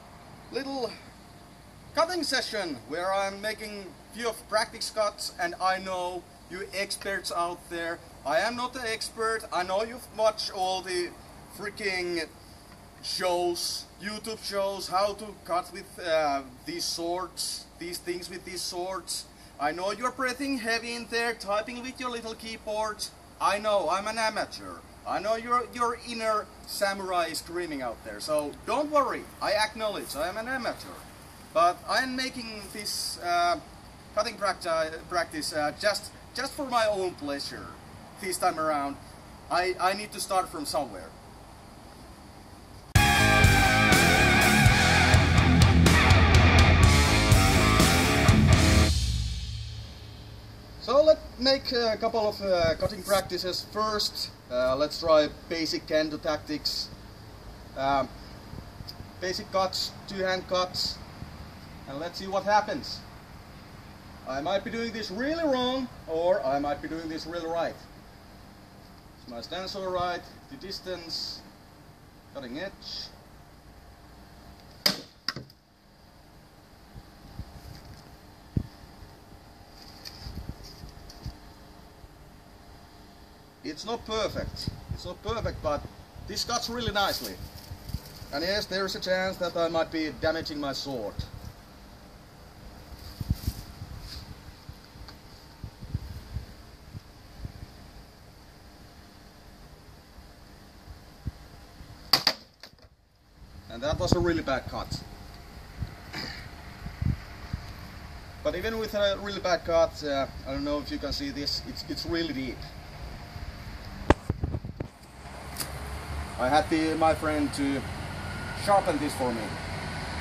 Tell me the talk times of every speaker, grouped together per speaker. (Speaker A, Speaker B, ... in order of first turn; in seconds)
Speaker A: 0.5-0.9, 1.9-12.3, 13.0-41.1, 50.8-56.9, 57.8-58.1, 59.2-61.0, 61.9-63.0, 64.2-67.8, 69.2-71.4, 72.3-73.1, 83.6-87.4, 88.3-91.3, 103.7-105.0, 108.4-112.7, 116.4-117.9, 118.5-119.6